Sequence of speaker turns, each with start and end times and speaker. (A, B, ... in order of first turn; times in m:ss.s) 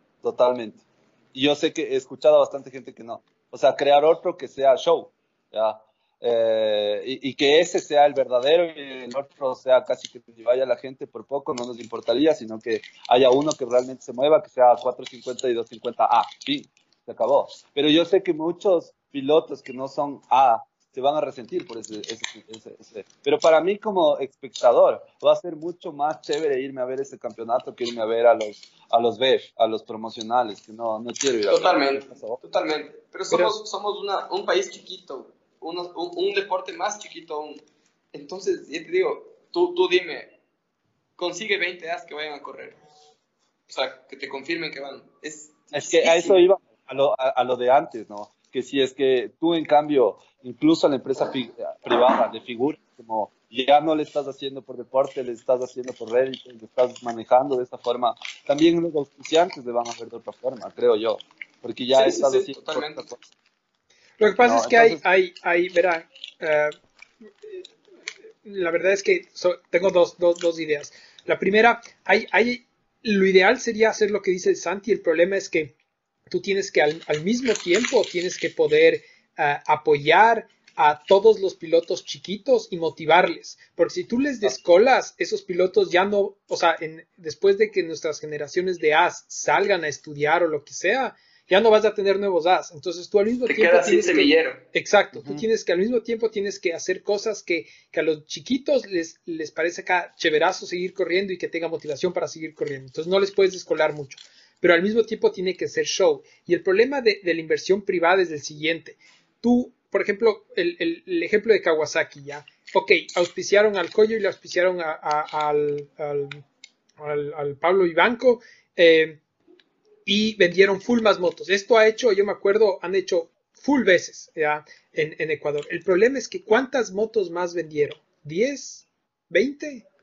0:00.2-0:32.4 A
0:31.5-0:40.4 B
0:33.3-0:33.6 C
0:41.2-0:42.8 B
0:43.7-0:46.4 B
0:45.7-1:03.2 A
1:01.9-1:03.1 B
1:04.2-1:06.8 C
1:04.4-1:05.0 A
1:08.4-1:15.7 C
1:16.3-1:56.4 C
1:33.5-1:34.6 B
1:35.1-1:35.4 A
1:57.0-1:59.2 C
2:00.0-2:09.8 C